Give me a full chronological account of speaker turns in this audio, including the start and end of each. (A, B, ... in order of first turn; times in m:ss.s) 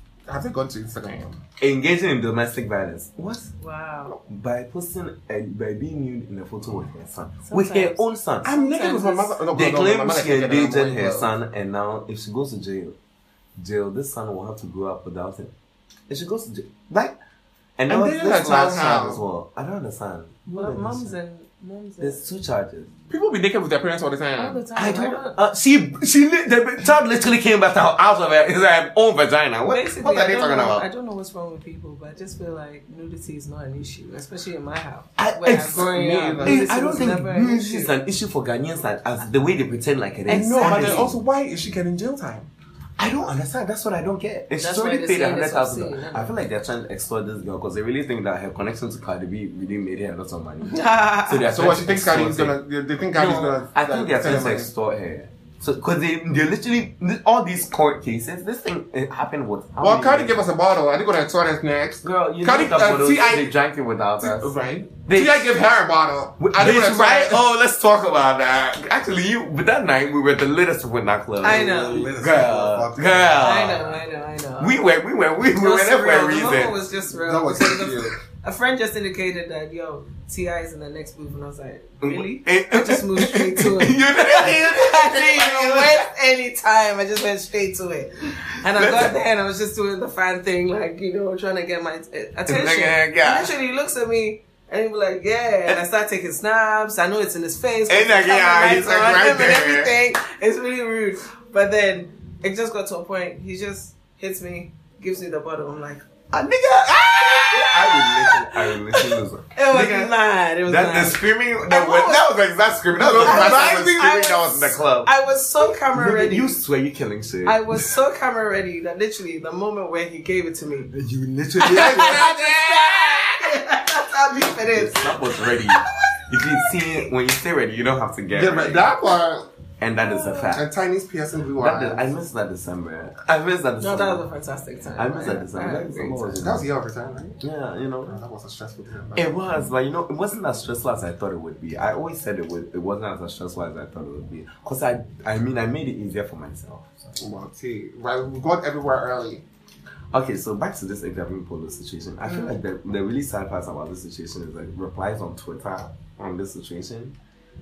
0:00.3-0:01.4 A
0:01.6-0:03.5 B
0:03.6-0:04.2 C
0:04.2-0:08.5 B
0:07.4-0:09.4 C
0:08.4-0:11.3 A
0:09.5-0:13.0 B
0:13.6-0:15.5 B
0:16.1-0:17.2 B
0:17.8-0:21.2 B
0:17.9-0:19.2 A
0:20.5-0:22.2 C
0:22.0-0:22.9 B
0:23.1-0:24.6 A
0:24.4-0:25.4 C
0:24.8-0:30.8 B
0:29.7-0:37.9 C
0:35.2-0:41.2 B
0:35.7-0:37.2 A
0:40.3-0:41.1 C
0:40.3-0:42.5 A
0:43.0-0:52.6 B
0:44.6-0:46.3 C
0:50.7-0:51.4 C
0:51.5-0:54.7 A
0:53.1-1:00.4 B
0:59.8-1:03.5 A
1:02.0-1:05.5 B
1:04.2-1:07.4 A
1:06.4-1:14.0 B
1:11.4-1:12.1 C
1:11.4-1:13.8 A
1:13.4-1:14.8 C
1:14.6-1:16.8 B
1:15.6-1:46.0 C
1:17.1-1:18.2 A
1:22.0-1:26.1 B
1:28.6-1:29.2 B
1:32.4-1:33.5 B
1:37.9-1:39.9 B
1:46.3-1:57.7 B
1:47.5-1:52.2 C
1:52.9-1:54.2 A
1:53.1-1:56.6 C
1:57.4-2:00.9 C
2:00.9-2:02.3 B
2:01.6-2:05.2 C
2:01.6-2:03.0 A
2:04.3-2:08.9 B
2:08.3-2:09.5 A
2:09.8-2:10.6 B
2:10.0-2:10.5 C
2:10.5-2:12.1 A
2:11.6-2:14.2 B
2:13.8-2:16.4 C
2:15.0-2:16.7 B
2:16.4-2:17.4 A
2:17.4-2:18.2 B
2:18.0-2:19.4 A
2:19.1-2:27.2 B
2:27.2-2:29.4 A
2:30.1-2:37.2 B
2:32.2-2:32.6 C